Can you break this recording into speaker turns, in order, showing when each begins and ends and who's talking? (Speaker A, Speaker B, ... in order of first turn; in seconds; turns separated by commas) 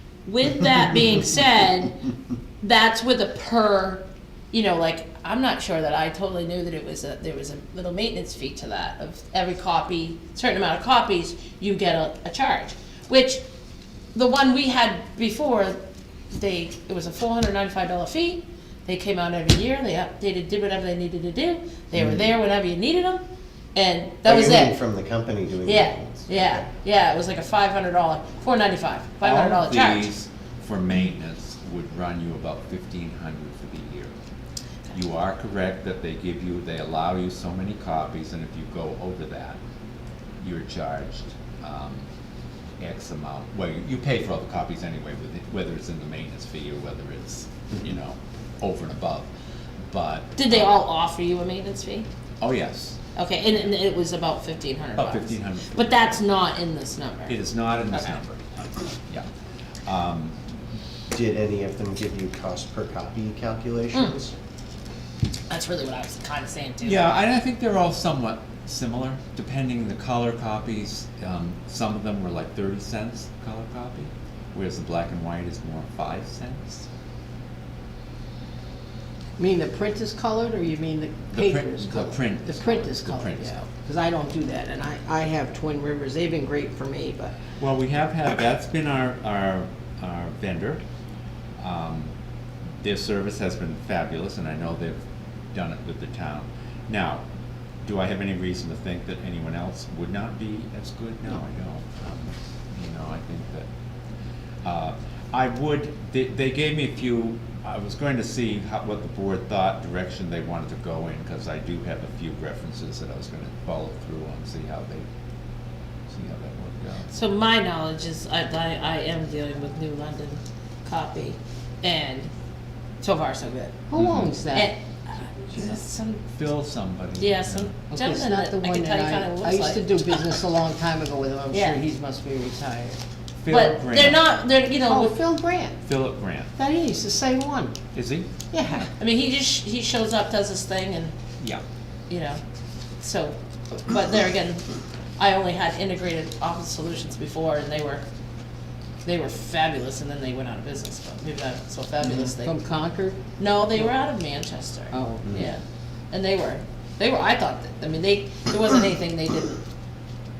Speaker A: 0.2-2.0, Speaker A: 2.6-13.4, Speaker A: 14.1-15.8, Speaker A: 16.3-23.2, Speaker B: 21.9-22.3, Speaker A: 23.8-24.8, Speaker B: 24.2-26.7, Speaker A: 25.6-30.1, Speaker C: 29.2-34.1, Speaker C: 34.9-39.6, Speaker C: 40.4-42.1, Speaker C: 42.8-49.3, Speaker C: 49.9-50.7, Speaker A: 50.4-52.1, Speaker C: 52.4-53.7, Speaker A: 53.1-57.4, Speaker C: 55.0-56.0, Speaker C: 57.3-58.5, Speaker C: 59.9-60.4, Speaker B: 61.1-64.3, Speaker A: 65.5-67.1, Speaker C: 66.8-76.9, Speaker D: 79.4-87.4, Speaker C: 81.3-83.6, Speaker C: 87.6-90.8, Speaker C: 91.6-92.1, Speaker C: 92.8-95.0, Speaker C: 95.5-97.2, Speaker C: 97.8-103.7, Speaker C: 104.6-115.1, Speaker C: 116.1-117.1, Speaker A: 117.1-122.3, Speaker A: 123.0-123.8, Speaker D: 123.9-124.7, Speaker C: 124.0-124.3, Speaker A: 124.5-126.3, Speaker C: 126.3-127.7, Speaker A: 127.2-130.2, Speaker D: 127.9-133.0, Speaker A: 131.5-131.8, Speaker C: 133.4-134.2, Speaker A: 133.5-135.2, Speaker D: 134.8-135.8, Speaker C: 135.8-136.5, Speaker D: 136.6-137.8, Speaker C: 137.9-138.3, Speaker D: 138.5-138.9, Speaker A: 139.0-141.2, Speaker A: 142.1-142.4, Speaker A: 143.0-148.0, Speaker A: 149.0-152.5, Speaker D: 152.0-153.2, Speaker A: 153.4-159.6, Speaker D: 154.9-155.4